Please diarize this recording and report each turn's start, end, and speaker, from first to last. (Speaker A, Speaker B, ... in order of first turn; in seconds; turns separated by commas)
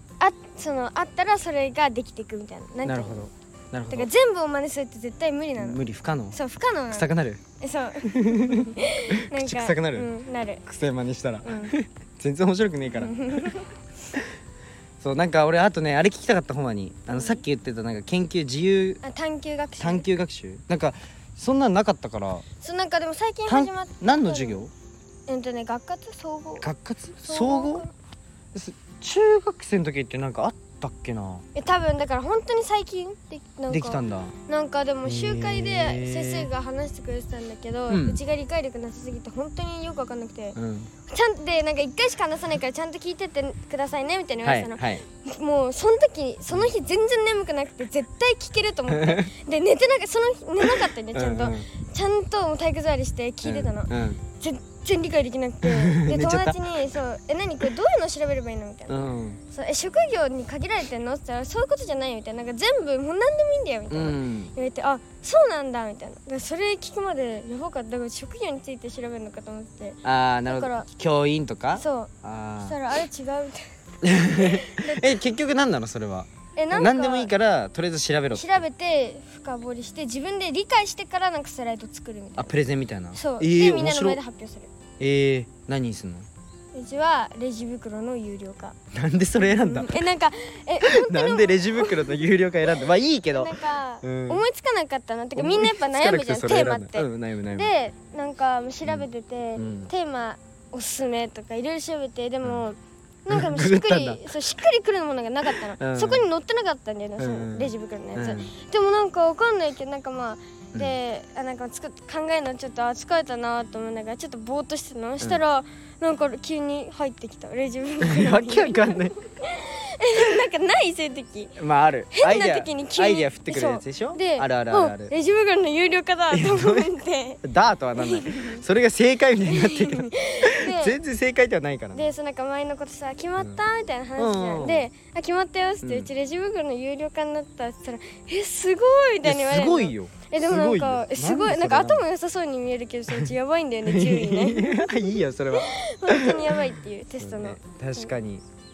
Speaker A: 0.2-3.2, Speaker B: 2.8-4.1, Speaker A: 3.9-5.8, Speaker B: 5.6-6.4, Speaker A: 6.3-7.1, Speaker B: 6.9-7.4, Speaker A: 7.6-10.6, Speaker B: 8.0-10.1, Speaker B: 10.7-13.5, Speaker A: 11.4-11.7, Speaker A: 12.9-13.7, Speaker B: 15.0-19.0, Speaker A: 17.1-17.4, Speaker A: 19.0-20.1, Speaker B: 19.8-22.4, Speaker A: 22.6-24.6, Speaker B: 23.5-24.7, Speaker A: 25.3-26.7, Speaker B: 26.6-27.9, Speaker A: 27.2-27.9, Speaker B: 28.5-31.4, Speaker A: 31.5-40.6, Speaker B: 33.7-34.3, Speaker B: 35.0-36.5, Speaker B: 37.9-38.2, Speaker B: 40.5-40.9, Speaker A: 41.1-70.9, Speaker B: 44.4-45.0, Speaker B: 48.9-49.3, Speaker B: 50.6-51.7, Speaker B: 53.4-54.2, Speaker B: 55.6-56.6, Speaker B: 58.9-59.4, Speaker B: 63.9-64.5, Speaker B: 70.0-72.8, Speaker A: 71.8-73.6, Speaker B: 74.0-78.6, Speaker A: 74.3-75.2, Speaker A: 76.5-77.3, Speaker A: 78.3-82.5, Speaker B: 82.4-84.2, Speaker A: 83.1-84.7, Speaker B: 85.0-86.3, Speaker A: 86.7-88.8, Speaker B: 88.9-90.0, Speaker A: 89.4-92.2, Speaker B: 90.8-94.4, Speaker A: 93.3-121.6, Speaker B: 95.3-97.7, Speaker B: 99.6-99.9, Speaker B: 103.3-104.3, Speaker B: 105.5-106.2, Speaker B: 107.2-108.5, Speaker B: 118.0-119.1, Speaker B: 121.6-125.1, Speaker A: 122.1-127.4, Speaker B: 126.3-126.9, Speaker B: 127.4-132.1, Speaker A: 128.0-128.6, Speaker A: 129.5-131.0, Speaker A: 131.9-148.1, Speaker B: 134.2-134.9, Speaker B: 135.8-136.1, Speaker B: 139.2-142.0, Speaker B: 143.8-146.6, Speaker B: 147.2-148.4